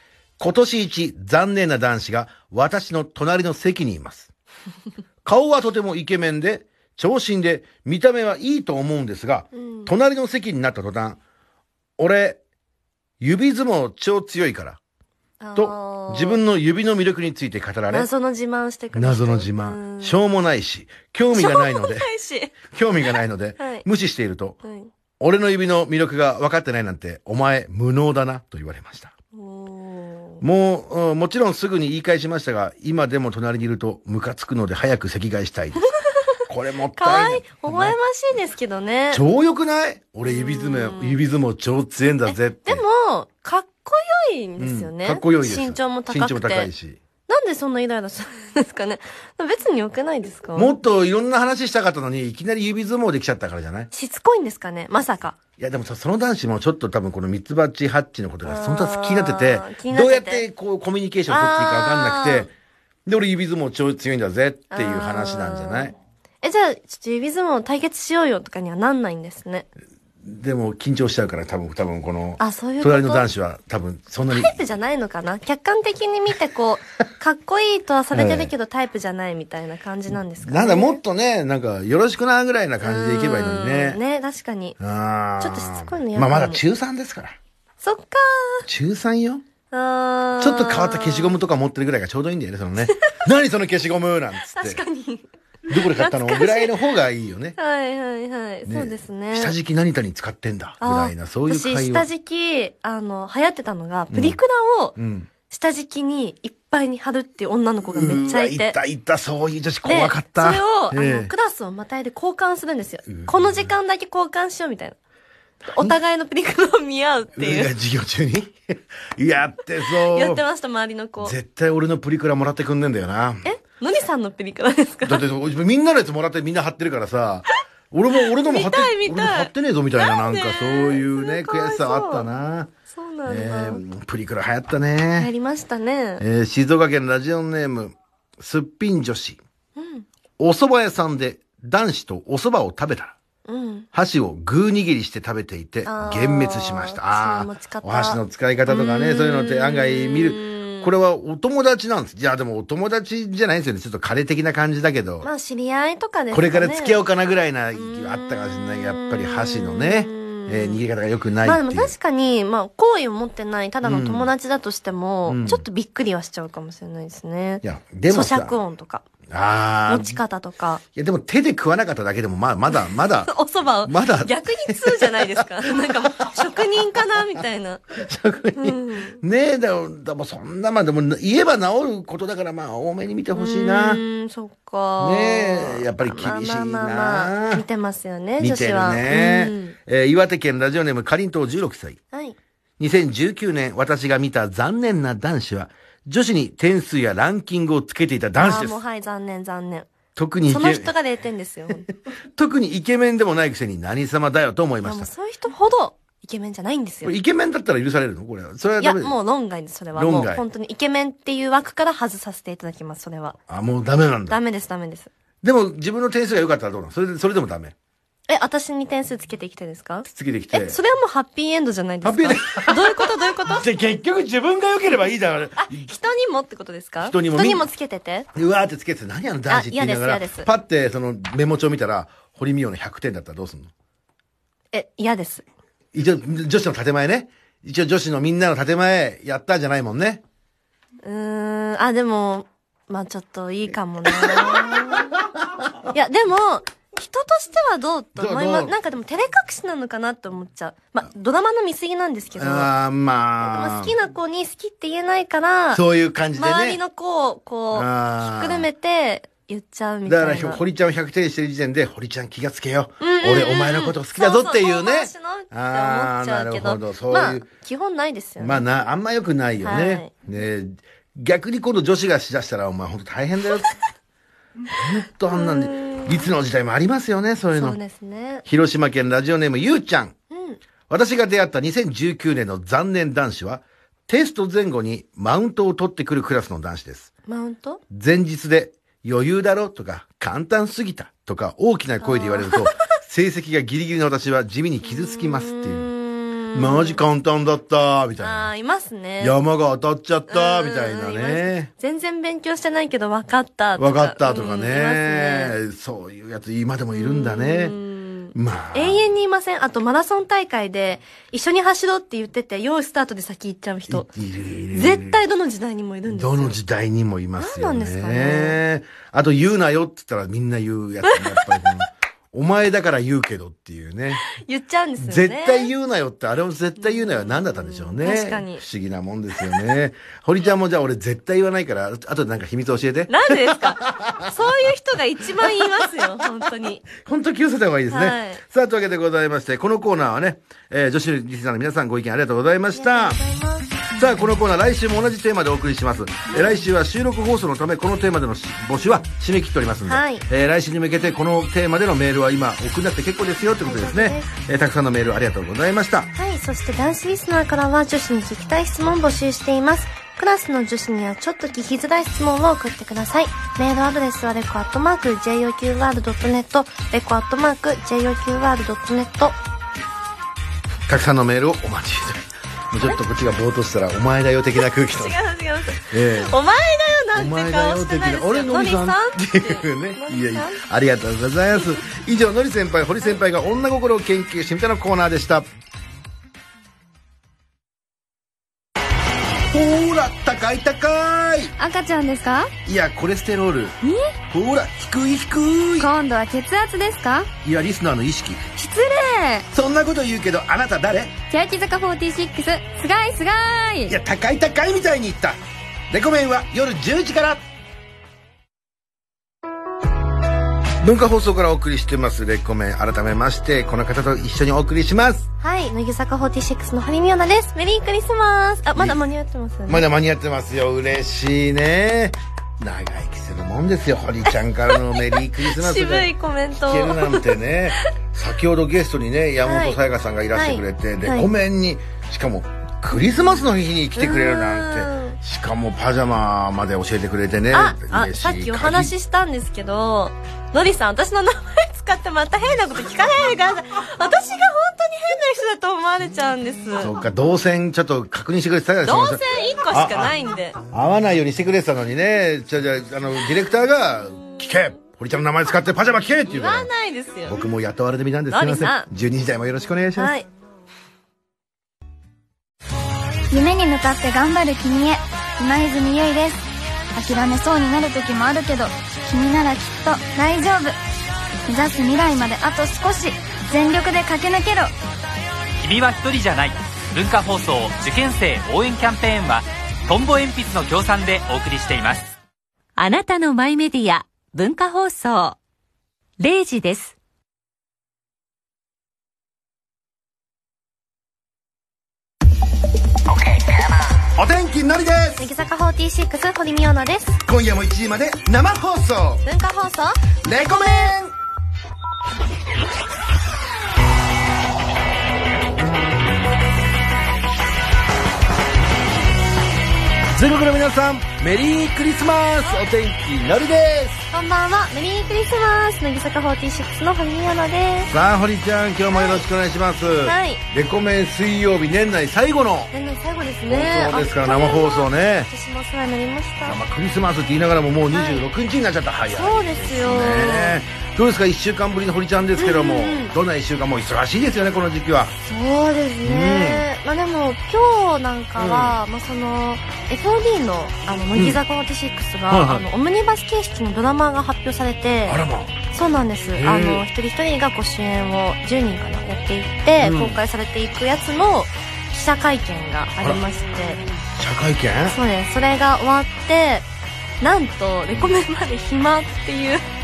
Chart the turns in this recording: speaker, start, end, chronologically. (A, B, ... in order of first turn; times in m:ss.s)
0:00.4-0:04.3 A
0:05.2-0:11.2 A
0:09.5-0:09.9 B
0:12.0-0:12.4 A
0:13.2-0:14.8 A
0:15.4-0:16.4 B
0:15.6-0:18.1 A
0:17.9-0:20.2 B
0:18.9-0:22.1 A
0:21.3-0:22.6 B
0:22.6-0:24.6 A
0:23.1-0:23.8 B
0:24.6-0:24.9 B
0:25.2-0:29.1 A
0:29.3-0:30.4 B
0:30.4-0:35.8 A
0:36.5-0:38.0 A
0:37.0-0:39.2 B
0:39.1-0:42.8 A
0:40.2-0:41.2 B
0:42.3-0:46.7 B
0:44.6-0:47.0 A
0:47.3-0:50.7 B
0:50.5-0:53.9 A
0:53.9-0:55.4 B
0:55.6-1:02.5 A
0:58.4-1:00.4 B
1:01.3-1:02.5 B
1:03.0-1:05.9 A
1:04.7-1:09.7 B
1:10.2-1:14.6 A
1:12.4-1:13.3 B
1:14.3-1:21.0 B
1:18.1-1:18.5 A
1:20.4-1:24.0 A
1:22.8-1:24.8 B
1:24.8-1:27.4 A
1:25.4-1:26.6 B
1:27.8-1:28.7 B
1:28.6-1:29.4 A
1:29.7-1:31.4 B
1:30.4-1:34.8 A
1:32.9-1:33.1 B
1:34.5-1:36.9 B
1:35.7-1:37.6 A
1:37.6-1:39.6 B
1:38.6-1:42.1 A
1:40.8-1:45.0 B
1:44.1-1:44.4 A
1:45.0-1:45.3 A
1:45.5-1:48.8 B
1:47.8-1:51.3 A
1:49.8-1:55.0 B
1:53.1-1:53.7 A
1:55.6-1:56.0 A
1:55.7-1:57.7 B
1:57.4-2:00.4 A
2:00.1-2:01.4 B
2:01.2-2:03.5 A
2:03.4-2:05.2 B
2:05.0-2:12.7 A
2:08.2-2:12.3 B
2:12.9-2:13.8 B
2:13.2-2:15.3 A
2:15.2-2:16.2 B
2:16.2-2:19.4 A
2:19.8-2:20.1 B
2:20.4-2:23.2 A
2:23.4-2:23.9 B
2:23.9-2:35.3 A
2:25.8-2:30.9 B
2:35.2-2:37.0 B
2:36.3-2:41.9 A
2:37.9-2:40.8 B
2:41.4-2:49.0 B
2:43.8-2:44.3 A
2:45.2-2:45.6 A
2:47.6-2:48.6 A
2:49.3-2:50.2 A
2:49.9-2:50.8 B
2:51.0-2:53.3 A
2:52.7-2:57.8 B
2:53.8-2:56.6 A
2:57.9-3:04.0 A
2:58.6-2:59.2 B
3:03.3-3:09.8 B
3:05.0-3:07.6 A
3:08.4-3:12.0 A
3:12.1-3:12.4 B
3:12.8-3:18.8 A
3:18.4-3:19.9 B
3:20.2-3:20.9 A
3:20.4-3:21.8 B
3:22.3-3:25.1 A
3:24.8-3:27.1 B
3:27.0-3:29.1 A
3:28.8-3:33.4 B
3:29.9-3:30.4 A
3:33.5-3:34.4 A
3:34.3-3:35.1 B
3:35.4-3:37.7 A
3:38.3-3:43.6 B
3:40.0-3:40.8 A
3:42.0-3:45.8 A
3:45.6-3:48.3 B
3:47.0-3:47.7 A
3:48.3-3:53.7 A
3:49.5-3:50.5 B
3:54.7-3:55.4 B
3:55.9-4:00.2 A
4:01.0-4:05.1 B
4:04.0-4:05.7 A
4:05.9-4:12.7 B
4:08.1-4:08.7 A
4:12.4-4:13.9 A
4:13.4-4:15.8 B
4:15.7-4:16.8 A
4:16.4-4:20.6 B
4:17.7-4:18.7 A
4:20.0-4:27.4 A
4:23.0-4:28.6 B
4:28.4-4:33.7 A
4:29.6-4:30.1 B
4:34.7-4:37.8 A
4:35.3-4:36.3 B
4:37.5-4:38.4 B
4:38.4-4:40.1 A
4:40.3-4:40.6 B
4:40.9-4:47.1 A
4:47.3-4:47.8 B
4:47.9-4:55.9 A
4:52.0-4:52.7 B
4:54.8-4:57.0 B
4:56.5-4:58.5 A
4:58.2-4:59.4 B
4:59.2-5:01.7 A
5:00.3-5:05.6 B
5:03.8-5:07.7 A
5:06.9-5:14.1 B
5:08.3-5:09.0 A
5:13.9-5:15.2 A
5:14.7-5:16.6 B
5:16.1-5:24.2 A
5:17.4-5:18.6 B
5:21.1-5:21.4 B
5:24.3-5:25.7 B
5:25.0-5:34.3 A
5:26.8-5:28.6 B
5:33.1-5:36.9 B
5:37.0-5:43.2 A
5:37.9-5:38.4 B
5:42.7-5:43.8 B
5:43.9-5:56.1 A
5:46.3-5:46.6 B
5:49.9-5:50.2 B
5:53.6-5:54.3 B
5:56.2-6:09.4 B
6:10.9-6:15.2 A
6:14.6-6:20.6 B
6:15.9-6:16.4 A
6:17.1-6:25.5 A
6:29.5-6:31.5 A
6:31.6-6:32.5 C
6:32.6-6:33.8 A
6:33.8-6:34.1 C
6:34.3-6:35.9 A
6:35.8-6:37.3 C
6:37.4-6:38.4 A
6:38.6-6:39.5 C
6:39.5-6:41.2 A
6:41.3-6:43.9 C
6:43.9-6:45.4 A
6:45.9-6:47.4 A
6:50.8-6:55.3 A
6:55.4-6:59.8 B
6:59.7-7:06.1 A
7:04.7-7:07.4 B
7:06.6-7:18.9 A
7:09.4-7:09.8 B
7:10.3-7:11.3 B
7:14.0-7:15.2 B
7:17.5-7:26.9 B
7:26.8-7:30.1 A
7:28.8-7:30.6 B
7:30.7-7:36.7 A
7:36.3-7:37.4 B
7:37.2-7:40.2 A
7:38.3-7:38.9 B
7:40.0-7:40.3 B
7:43.3-7:50.8 C
7:51.5-7:54.7 C
7:55.6-8:02.2 D
8:02.8-8:05.4 E
8:06.2-8:07.0 E
8:14.1-8:15.3 A
8:15.2-8:17.2 B
8:17.2-8:19.2 A
8:19.2-8:20.0 B
8:20.2-8:21.1 A
8:30.1-8:34.0 A
8:34.1-8:37.9 B
8:37.8-8:42.7 A
8:38.9-8:39.2 B
8:40.0-8:40.4 B
8:42.7-8:46.6 B
8:43.5-8:45.3 A
8:46.4-8:55.1 A
8:47.9-8:48.2 B
8:49.1-8:50.6 B
8:52.4-8:53.1 B
8:55.2-9:13.8 B
8:56.0-8:56.6 A
8:58.4-8:58.8 A
9:01.1-9:01.4 A
9:02.3-9:02.6 A
9:05.0-9:05.6 A
9:06.4-9:06.8 A
9:09.8-9:10.2 A
9:14.2-9:15.0 A
9:14.8-9:16.7 B
9:17.2-9:19.6 B